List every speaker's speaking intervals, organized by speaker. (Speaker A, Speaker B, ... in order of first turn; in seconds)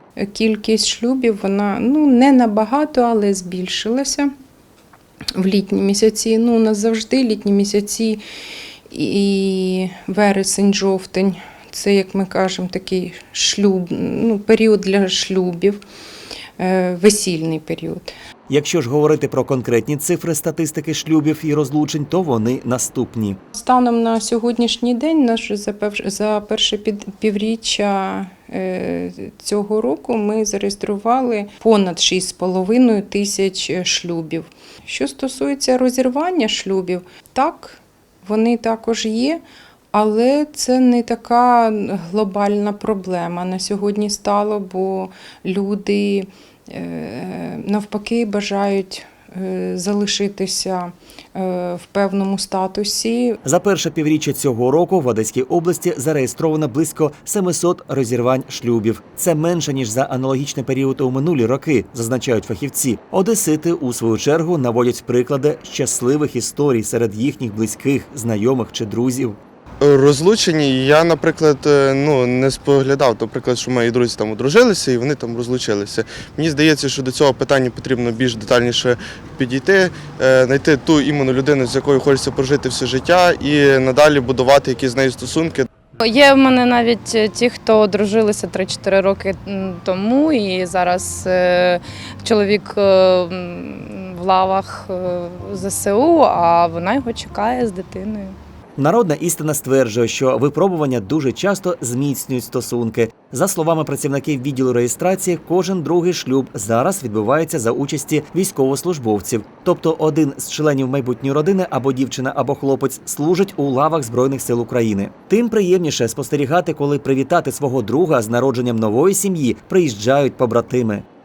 Speaker A: 0.2-4.3, 5.3-8.2, 8.9-15.8, 16.6-18.1, 23.5-39.4, 39.9-53.4
Speaker B: 18.5-23.4, 53.4-69.4, 98.8-121.0
Speaker C: 69.8-85.7
Speaker D: 86.0-98.3